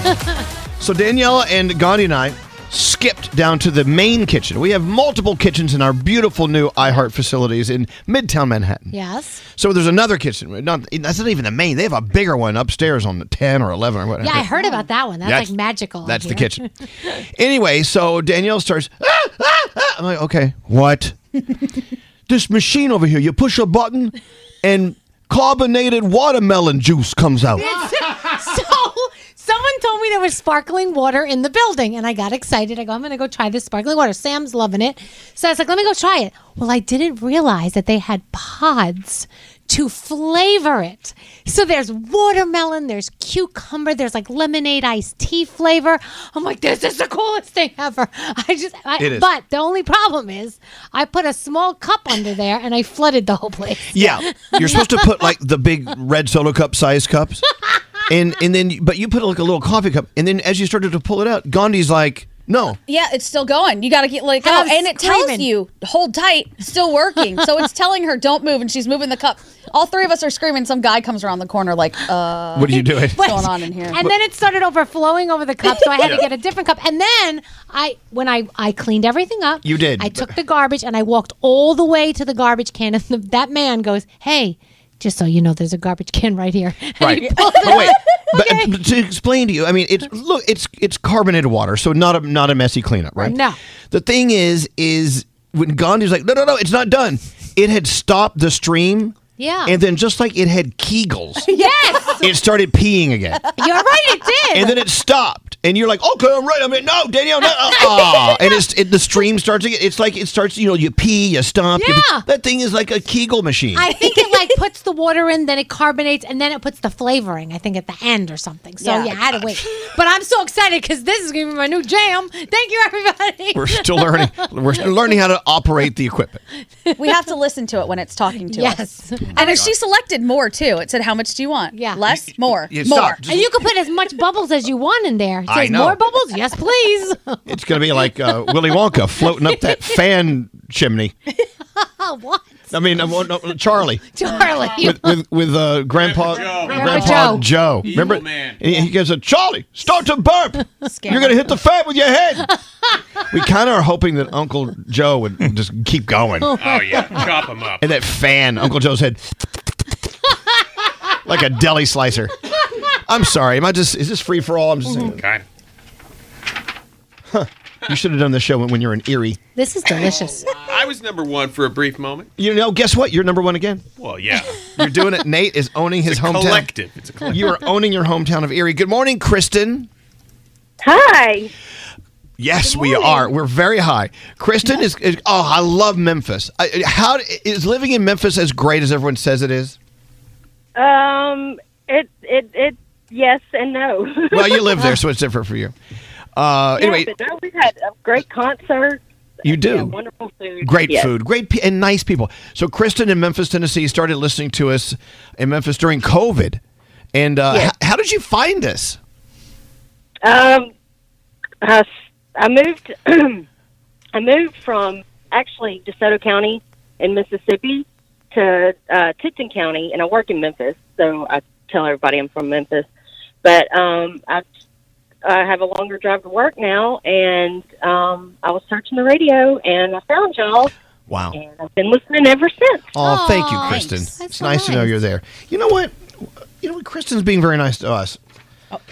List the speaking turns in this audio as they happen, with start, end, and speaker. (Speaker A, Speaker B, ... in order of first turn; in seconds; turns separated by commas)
Speaker A: 0.8-8.9, Speaker B: 8.9-9.4, Speaker A: 9.5-14.5, Speaker B: 14.2-16.6, Speaker A: 15.2-15.5, Speaker A: 16.0-16.6, Speaker A: 17.3-21.2, Speaker A: 22.3-27.7, Speaker B: 27.6-55.1, Speaker A: 49.0-49.3, Speaker A: 53.9-57.4, Speaker A: 58.1-62.8, Speaker C: 62.9-74.1, Speaker B: 64.4-65.5, Speaker A: 72.5-73.4, Speaker B: 73.2-88.7, Speaker A: 79.6-80.3, Speaker A: 87.0-93.4, Speaker C: 87.2-88.0, Speaker B: 93.2-93.6, Speaker A: 93.9-101.5, Speaker B: 99.4-99.8, Speaker B: 101.5-102.3, Speaker A: 102.2-103.4, Speaker B: 103.6-104.8, Speaker A: 104.5-113.9, Speaker B: 107.7-108.3, Speaker B: 111.8-112.2, Speaker B: 113.8-124.4, Speaker C: 118.8-119.2, Speaker A: 123.5-126.4, Speaker C: 127.0-133.2, Speaker B: 128.5-129.7, Speaker A: 129.3-129.7, Speaker B: 131.7-132.0, Speaker A: 132.7-133.5, Speaker B: 133.2-137.4, Speaker A: 135.5-136.0, Speaker A: 137.5-141.2, Speaker B: 139.5-139.9, Speaker B: 141.8-142.6, Speaker A: 142.7-144.1, Speaker B: 144.1-145.2, Speaker A: 144.8-152.5, Speaker D: 145.9-147.3, Speaker B: 146.7-147.5, Speaker D: 147.8-148.6, Speaker C: 150.9-151.5, Speaker A: 153.3-156.6, Speaker B: 156.4-157.2, Speaker D: 156.6-157.8, Speaker A: 157.8-159.2, Speaker A: 161.2-162.3, Speaker A: 163.1-165.2, Speaker D: 165.0-165.4, Speaker A: 167.3-169.4, Speaker B: 169.6-170.5, Speaker D: 170.5-172.3, Speaker A: 172.4-173.8, Speaker D: 174.0-174.7, Speaker A: 174.8-176.7, Speaker D: 176.1-177.7, Speaker A: 177.3-179.9, Speaker E: 180.8-181.5, Speaker A: 182.4-189.8, Speaker B: 182.7-183.3, Speaker E: 190.8-194.8, Speaker A: 194.3-195.8, Speaker A: 196.3-197.1, Speaker E: 196.8-201.1, Speaker A: 199.4-199.9, Speaker A: 200.6-206.6, Speaker A: 207.1-209.0, Speaker E: 210.2-210.7, Speaker E: 211.6-213.4, Speaker E: 214.2-222.9, Speaker E: 223.4-224.4, Speaker E: 225.2-230.7, Speaker A: 231.1-231.4, Speaker E: 231.3-232.9, Speaker A: 232.9-236.0, Speaker B: 233.0-235.0, Speaker C: 233.6-234.1, Speaker A: 236.6-238.2